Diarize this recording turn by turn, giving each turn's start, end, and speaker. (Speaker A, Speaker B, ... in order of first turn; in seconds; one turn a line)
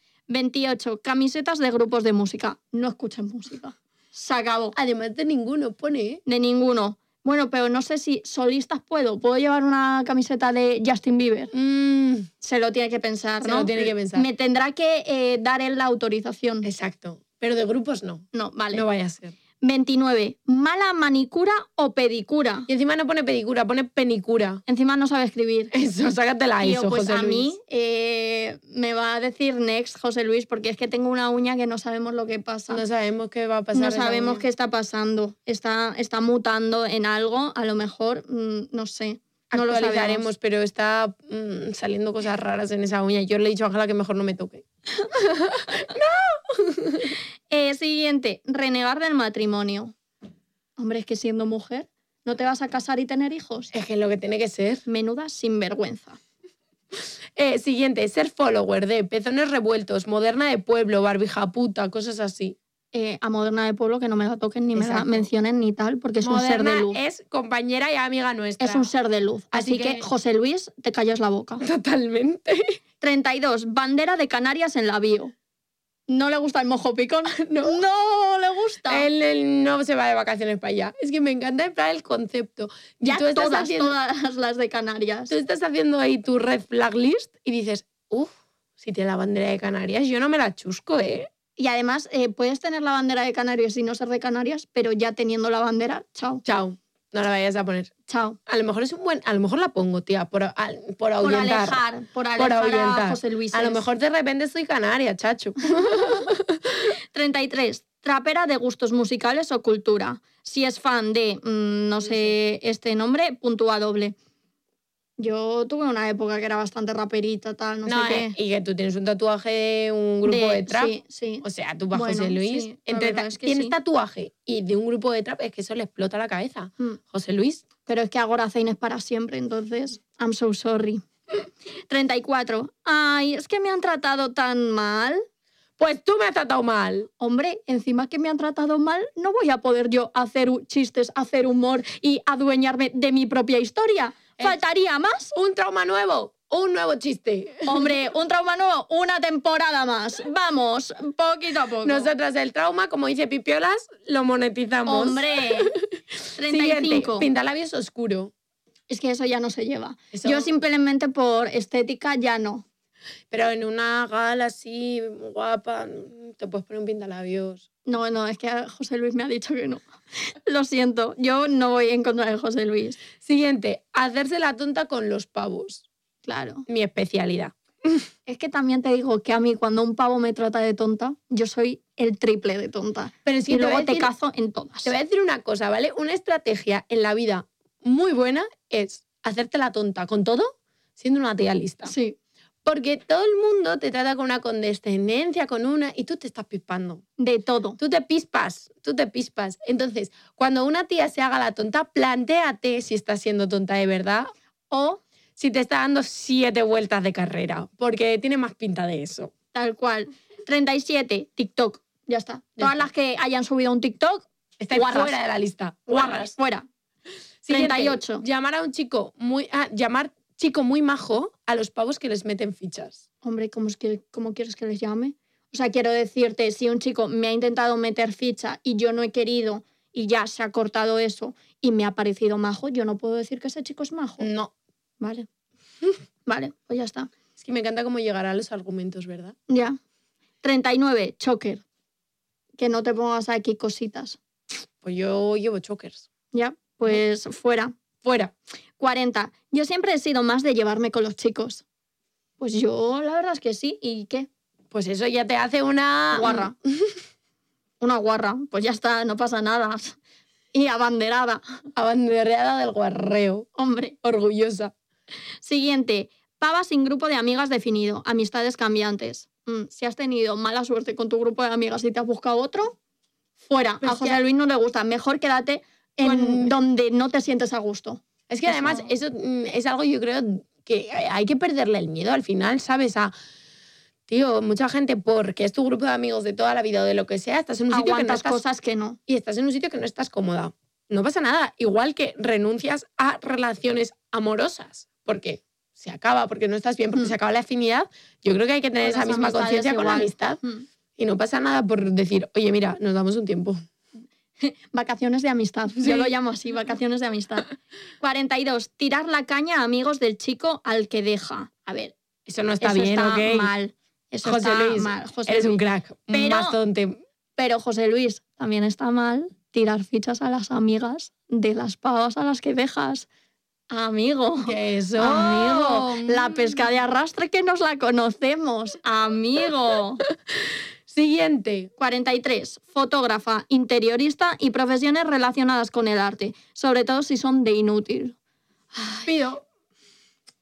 Speaker A: 0.3-4.8
Speaker B: 4.7-6.2
Speaker A: 6.3-11.5
Speaker B: 11.5-12.3
Speaker A: 12.4-16.7
Speaker B: 13.4-14.3
Speaker B: 16.6-19.4
Speaker A: 18.3-18.8
Speaker A: 19.6-22.7
Speaker B: 22.7-24.6
Speaker A: 24.7-25.7
Speaker B: 25.7-27.5
Speaker A: 26.6-32.8
Speaker B: 32.7-34.4
Speaker A: 33.7-40.3
Speaker B: 39.5-44.6
Speaker B: 45.1-47.1
Speaker A: 47.5-49.9
Speaker A: 50.8-53.7
Speaker B: 53.7-54.8
Speaker A: 54.9-56.2
Speaker B: 57.4-62.6
Speaker A: 62.9-67.0
Speaker B: 64.8-65.3
Speaker B: 66.2-68.9
Speaker A: 68.6-71.6
Speaker B: 69.5-70.0
Speaker B: 71.6-72.8
Speaker A: 73.0-75.3
Speaker A: 76.1-79.1
Speaker B: 77.3-77.8
Speaker B: 78.9-83.9
Speaker A: 83.0-85.3
Speaker B: 85.3-91.3
Speaker A: 91.6-96.4
Speaker B: 96.4-97.9
Speaker A: 98.1-98.4
Speaker B: 98.5-101.8
Speaker A: 101.2-103.8
Speaker B: 102.4-106.8
Speaker A: 107.1-114.2
Speaker B: 112.0-112.3
Speaker A: 115.2-118.3
Speaker B: 117.9-127.6
Speaker A: 120.3-123.8
Speaker A: 127.9-131.0
Speaker A: 131.9-135.2
Speaker B: 135.8-137.1
Speaker A: 137.2-145.3
Speaker B: 145.3-147.9
Speaker A: 147.6-152.1
Speaker B: 151.8-155.8
Speaker A: 154.9-155.8
Speaker A: 156.4-157.3
Speaker B: 156.5-158.3
Speaker A: 158.9-162.6
Speaker B: 160.1-160.5
Speaker B: 163.3-167.6
Speaker A: 167.9-169.8
Speaker A: 170.5-173.0
Speaker B: 173.2-175.8
Speaker A: 176.2-176.7
Speaker B: 176.7-178.1
Speaker A: 178.3-184.9
Speaker B: 183.2-184.1
Speaker B: 184.8-191.9
Speaker A: 191.8-192.2
Speaker B: 192.6-197.0
Speaker A: 197.2-197.8
Speaker B: 197.8-204.3
Speaker A: 204.7-205.0
Speaker B: 205.4-209.3
Speaker A: 209.5-215.2
Speaker B: 214.6-216.3
Speaker A: 215.9-216.7
Speaker B: 217.4-223.0
Speaker A: 217.5-218.2
Speaker A: 223.2-234.3
Speaker B: 234.2-234.5
Speaker A: 235.0-235.3
Speaker A: 236.3-237.1
Speaker B: 237.4-239.4
Speaker A: 239.5-239.8
Speaker A: 240.4-241.6
Speaker A: 242.6-244.2
Speaker B: 244.8-246.1
Speaker A: 246.3-247.7
Speaker B: 248.0-248.3
Speaker A: 248.8-251.6
Speaker A: 252.4-254.3
Speaker B: 254.7-256.9
Speaker A: 256.1-256.6
Speaker A: 257.8-260.0
Speaker A: 260.5-261.4
Speaker B: 261.8-263.5
Speaker A: 263.6-263.9
Speaker B: 264.0-264.7
Speaker A: 265.4-272.8
Speaker A: 273.5-278.9
Speaker B: 273.8-274.2
Speaker B: 276.0-276.5
Speaker B: 278.3-283.1
Speaker B: 284.1-288.4
Speaker A: 287.7-289.0
Speaker B: 289.1-300.4
Speaker A: 298.8-300.6
Speaker B: 301.0-303.6
Speaker A: 304.4-311.9
Speaker B: 305.8-306.1
Speaker B: 312.3-313.5
Speaker A: 312.6-315.6
Speaker B: 314.2-317.0
Speaker A: 316.1-316.6
Speaker A: 317.4-323.1
Speaker A: 323.7-330.0
Speaker B: 324.4-326.6
Speaker B: 330.9-331.7
Speaker A: 331.8-338.1
Speaker A: 338.8-339.1
Speaker B: 339.0-339.4